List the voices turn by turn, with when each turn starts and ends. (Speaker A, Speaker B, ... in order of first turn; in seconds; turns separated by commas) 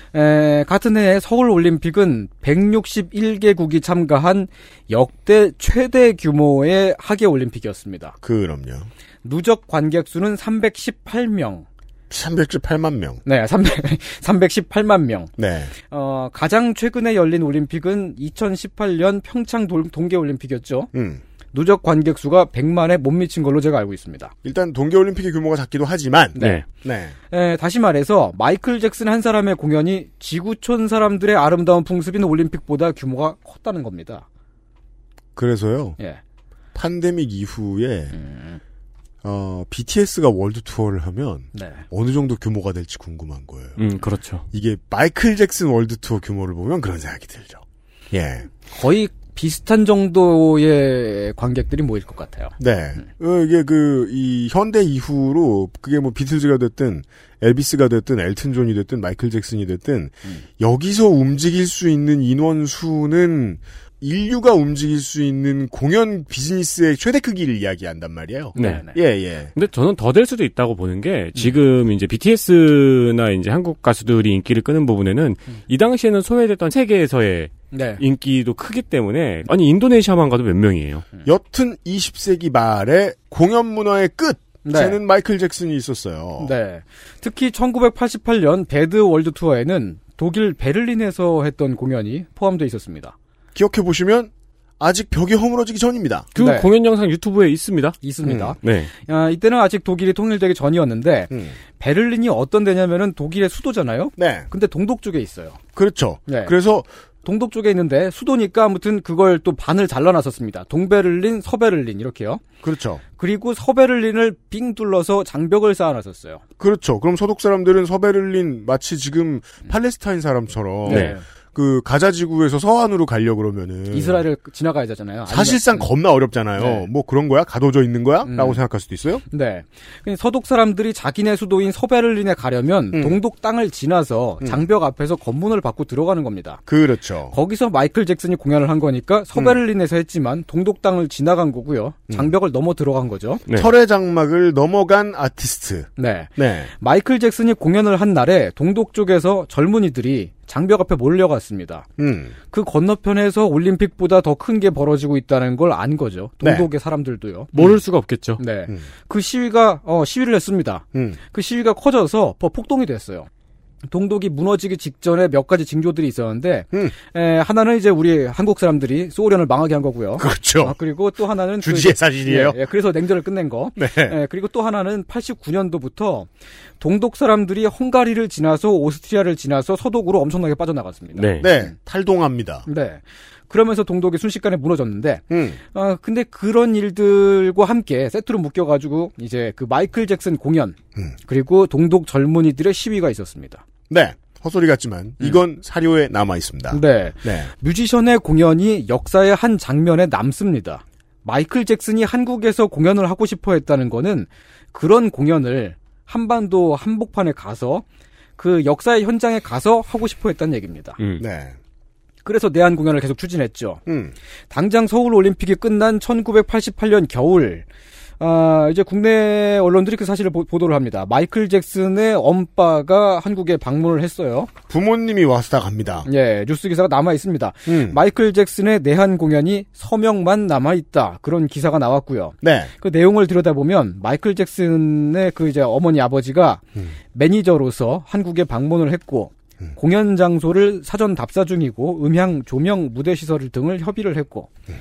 Speaker A: 0.1-8.2, Speaker B: 8.2-8.9, Speaker A: 9.2-11.7, Speaker B: 12.1-13.2, Speaker A: 13.3-15.3, Speaker B: 15.4-15.7, Speaker A: 15.9-20.9, Speaker B: 20.9-21.2, Speaker A: 21.5-24.3, Speaker B: 24.4-27.1, Speaker A: 26.4-26.6, Speaker C: 26.4-26.6, Speaker A: 27.3-34.2, Speaker B: 35.4-36.0, Speaker B: 36.8-38.2, Speaker A: 38.1-38.6, Speaker B: 39.2-43.8, Speaker A: 41.5-41.8, Speaker C: 43.8-44.4, Speaker B: 44.5-48.5, Speaker A: 48.7-52.5, Speaker B: 52.6-69.5, Speaker C: 68.6-68.9, Speaker A: 68.6-69.0, Speaker C: 69.5-81.0, Speaker A: 77.7-78.0, Speaker B: 81.3-86.5, Speaker A: 84.7-85.0, Speaker A: 86.4-93.2, Speaker B: 93.5-96.3, Speaker C: 96.3-98.0, Speaker A: 96.4-96.7, Speaker A: 98.0-105.6, Speaker B: 98.2-98.6, Speaker C: 98.6-98.9, Speaker B: 101.3-101.6, Speaker B: 104.2-104.5, Speaker B: 105.8-106.9, Speaker A: 106.3-106.5, Speaker A: 107.2-112.5, Speaker B: 112.6-113.0, Speaker A: 113.2-116.4, Speaker B: 116.6-124.2, Speaker A: 120.8-121.2, Speaker C: 120.9-121.2, Speaker A: 123.9-125.9, Speaker B: 125.3-129.2, Speaker A: 126.6-126.9, Speaker A: 128.2-128.6, Speaker A: 129.3-136.6, Speaker B: 132.9-133.2, Speaker B: 136.7-137.3, Speaker A: 137.3-143.4, Speaker B: 143.5-146.7, Speaker A: 146.0-151.9, Speaker B: 152.0-152.3, Speaker A: 152.5-157.5, Speaker B: 156.4-156.7, Speaker C: 157.6-158.4, Speaker A: 158.4-163.3, Speaker B: 160.9-161.2, Speaker A: 163.9-176.3, Speaker B: 170.2-170.8, Speaker B: 171.6-172.6, Speaker B: 173.8-174.2, Speaker A: 176.8-181.7, Speaker C: 181.2-181.5, Speaker B: 181.4-182.7, Speaker A: 182.7-190.8, Speaker B: 185.3-185.6, Speaker A: 191.3-193.6, Speaker B: 193.9-197.5, Speaker A: 196.7-207.8, Speaker A: 208.4-211.0, Speaker B: 211.2-211.6, Speaker A: 212.2-213.8, Speaker B: 213.9-214.2, Speaker A: 214.5-217.7, Speaker A: 218.2-224.5, Speaker B: 224.7-226.1, Speaker A: 226.1-244.5, Speaker B: 227.7-228.0, Speaker B: 232.4-232.7